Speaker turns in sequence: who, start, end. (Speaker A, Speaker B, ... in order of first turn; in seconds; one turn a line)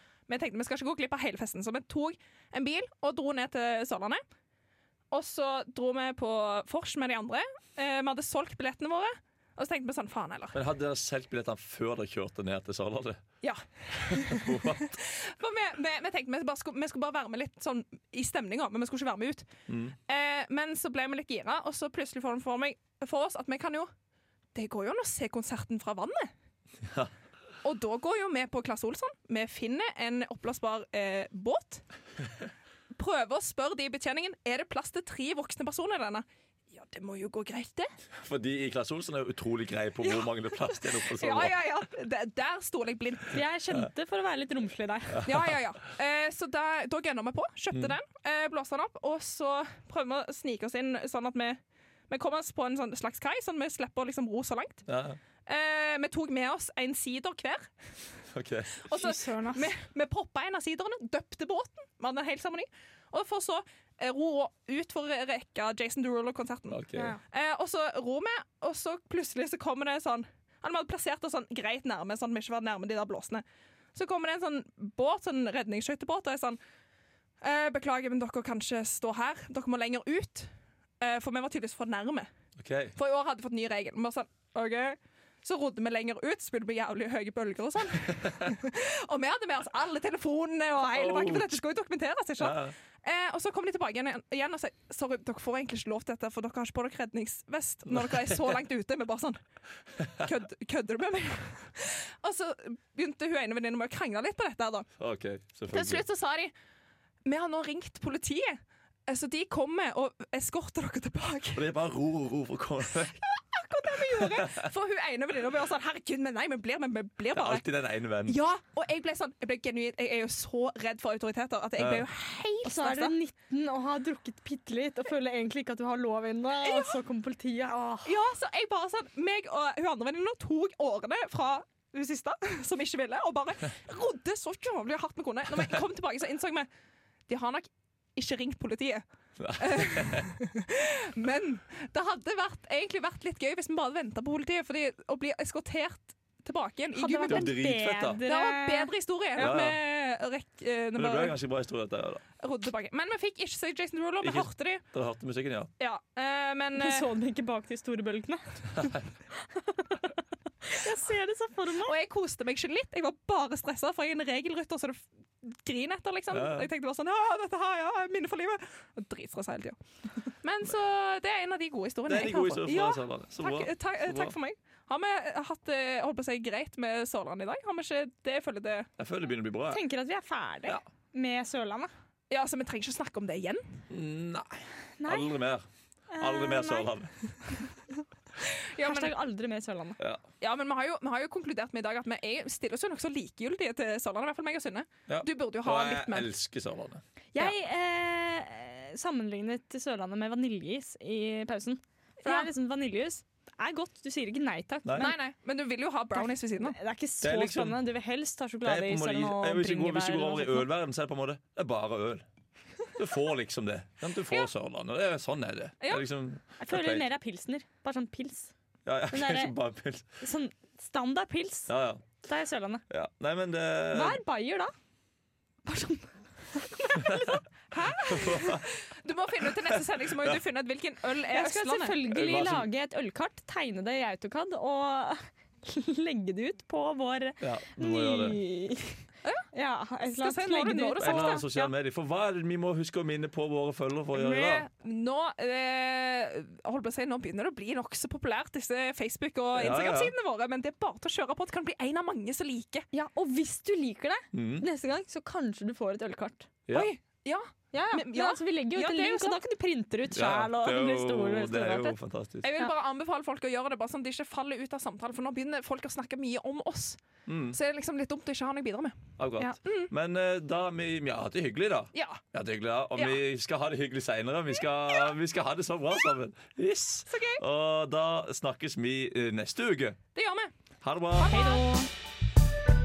Speaker A: 0.3-4.2
Speaker A: 5.1-10.6
Speaker B: 10.5-13.2
Speaker A: 13.4-19.5
Speaker B: 13.9-15.0
Speaker B: 19.7-19.9
Speaker A: 20.1-23.9
Speaker A: 24.5-26.3
Speaker B: 26.8-27.1
Speaker A: 27.6-31.8
Speaker A: 32.9-37.9
Speaker B: 38.2-41.5
Speaker A: 40.0-43.4
Speaker C: 43.3-45.2
Speaker B: 45.1-45.5
Speaker A: 45.2-54.9
Speaker B: 54.9-55.2
Speaker A: 55.5-57.7
Speaker B: 58.3-58.8
Speaker A: 58.8-73.4
Speaker C: 58.9-59.7
Speaker B: 66.7-67.2
Speaker A: 73.9-76.6
Speaker A: 77.4-82.3
Speaker B: 82.6-82.9
Speaker A: 83.0-99.4
Speaker B: 88.2-88.5
Speaker B: 90.9-91.5
Speaker B: 92.4-92.7
Speaker B: 97.9-98.6
Speaker B: 100.0-100.3
Speaker A: 100.2-104.9
Speaker B: 105.0-106.0
Speaker A: 105.7-106.5
Speaker A: 107.2-111.7
Speaker B: 111.5-113.2
Speaker A: 113.2-117.6
Speaker B: 114.0-114.7
Speaker B: 117.3-118.4
Speaker A: 118.2-123.1
Speaker B: 121.8-122.0
Speaker C: 122.6-128.1
Speaker A: 126.6-127.0
Speaker A: 128.0-136.7
Speaker A: 137.3-139.0
Speaker B: 139.4-140.3
Speaker A: 139.5-147.6
Speaker C: 146.9-149.5
Speaker B: 147.3-148.2
Speaker A: 148.2-151.4
Speaker B: 149.4-149.8
Speaker B: 150.9-152.2
Speaker A: 152.4-154.8
Speaker B: 154.2-155.7
Speaker A: 155.8-157.1
Speaker C: 156.8-158.9
Speaker C: 159.5-160.1
Speaker C: 160.6-161.9
Speaker A: 161.8-178.9
Speaker B: 166.3-166.7
Speaker B: 172.1-174.3
Speaker B: 179.0-179.8
Speaker C: 179.7-181.9
Speaker A: 182.3-183.8
Speaker B: 183.9-187.1
Speaker C: 185.0-185.3
Speaker C: 186.1-186.9
Speaker A: 188.5-189.1
Speaker C: 188.8-190.0
Speaker B: 190.0-190.2
Speaker A: 190.4-196.3
Speaker B: 195.1-197.0
Speaker C: 197.3-205.2
Speaker A: 202.2-202.5
Speaker B: 204.8-205.1
Speaker A: 205.0-206.8
Speaker C: 206.1-210.7
Speaker B: 207.2-207.8
Speaker B: 208.6-212.2
Speaker B: 212.9-217.1
Speaker A: 215.8-216.1
Speaker C: 216.6-218.5
Speaker B: 218.8-220.0
Speaker C: 219.1-219.6
Speaker C: 220.2-221.7
Speaker B: 221.7-222.1
Speaker C: 222.2-222.8
Speaker B: 222.9-224.2
Speaker C: 223.9-224.7
Speaker C: 225.6-227.4
Speaker B: 227.0-227.3
Speaker A: 227.7-232.0
Speaker B: 228.0-228.6
Speaker B: 229.5-230.4
Speaker C: 231.3-239.0
Speaker B: 232.1-232.7
Speaker B: 237.4-238.4
Speaker C: 239.5-241.7
Speaker A: 240.2-241.5
Speaker B: 241.0-244.7
Speaker A: 244.1-252.9
Speaker B: 249.5-250.1
Speaker C: 252.9-256.5
Speaker B: 254.3-254.7
Speaker B: 256.6-256.9
Speaker A: 256.7-259.4
Speaker C: 257.7-262.0
Speaker B: 260.1-262.5
Speaker A: 262.4-267.0
Speaker B: 267.3-267.6
Speaker A: 267.5-269.9
Speaker B: 269.2-280.0
Speaker A: 271.9-272.2
Speaker A: 277.1-277.4
Speaker A: 280.1-280.5
Speaker B: 280.8-281.4
Speaker A: 281.1-281.6
Speaker C: 281.2-281.9